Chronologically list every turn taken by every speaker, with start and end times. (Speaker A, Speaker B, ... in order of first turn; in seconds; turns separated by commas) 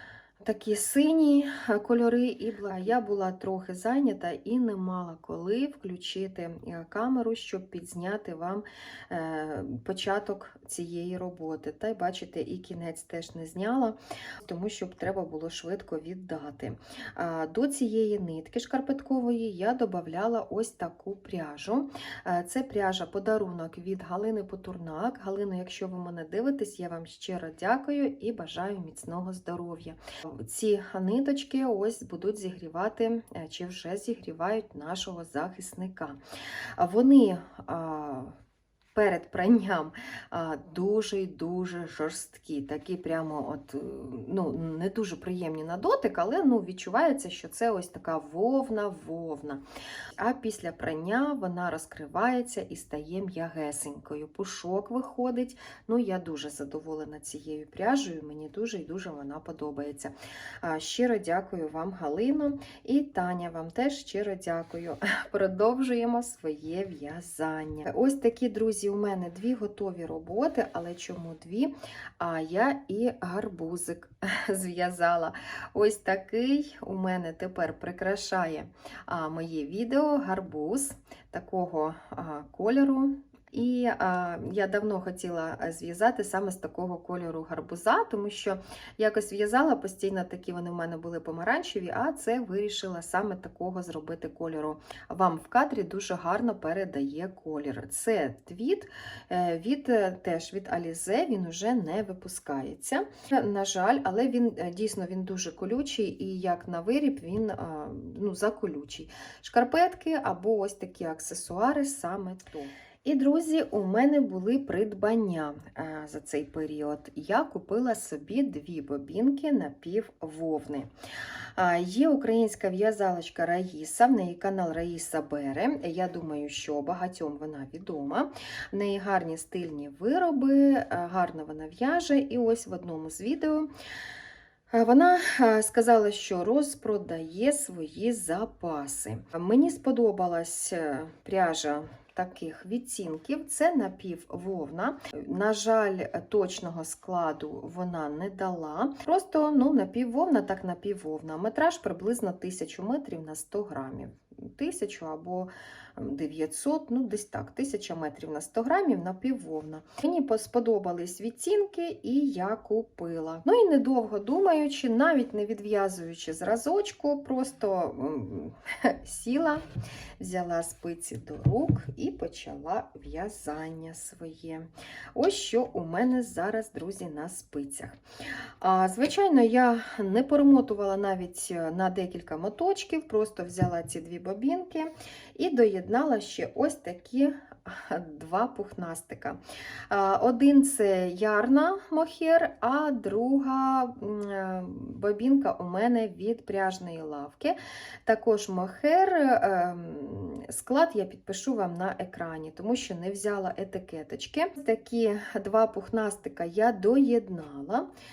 Speaker A: 0.4-36.2, Speaker A: 36.8-38.4, Speaker A: 38.9-49.6, Speaker A: 50.2-120.9, Speaker A: 121.5-133.7, Speaker A: 134.7-169.6, Speaker A: 170.2-178.0, Speaker A: 178.6-207.9